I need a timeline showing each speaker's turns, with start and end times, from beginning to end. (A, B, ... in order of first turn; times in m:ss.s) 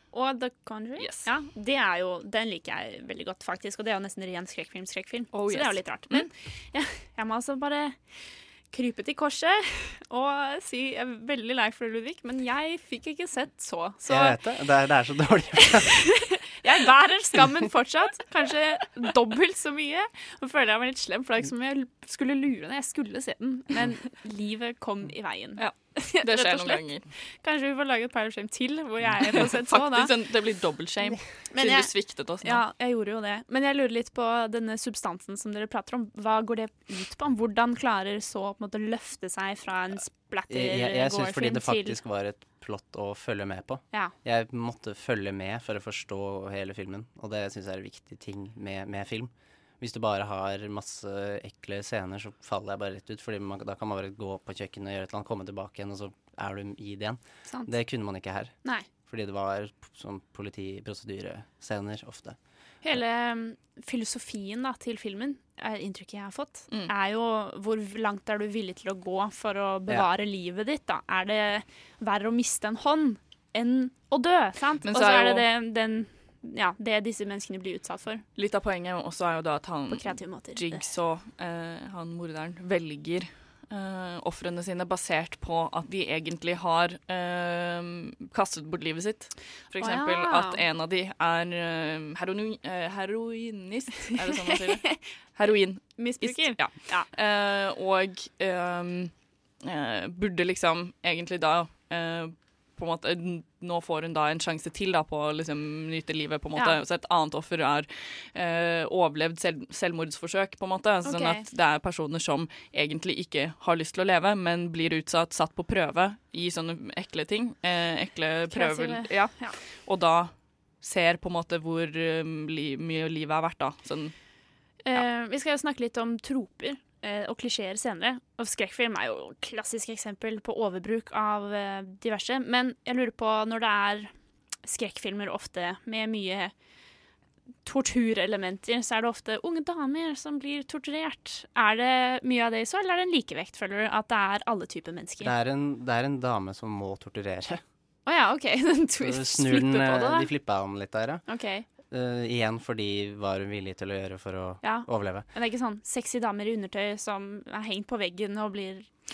0:00.1-0:14.4 A
0:01.0-0:01.3 B
0:05.3-0:06.3 B
0:14.1-0:16.0 C
0:16.6-0:30.1 A
0:25.6-0:27.1 B
0:29.3-0:32.6 B
0:31.5-0:31.9 A
0:32.4-0:42.0 A
0:40.5-0:58.5 C
0:57.5-0:57.7 A
0:59.0-1:02.4 C
1:02.8-1:18.2 A
1:14.8-1:15.5 B
1:18.4-2:04.1 B
1:19.9-1:20.9 A
1:29.8-1:30.6 A
1:34.7-1:35.0 A
1:35.8-1:37.1 A
1:51.0-1:51.4 A
1:58.5-1:59.6 A
2:04.8-2:14.1 A
2:14.6-2:16.5 A
2:17.6-2:25.3 A
2:25.2-2:27.6 C
2:28.0-2:30.3 A
2:29.0-2:31.2 C
2:31.3-2:31.6 A
2:31.9-2:35.3 C
2:34.6-2:38.9 A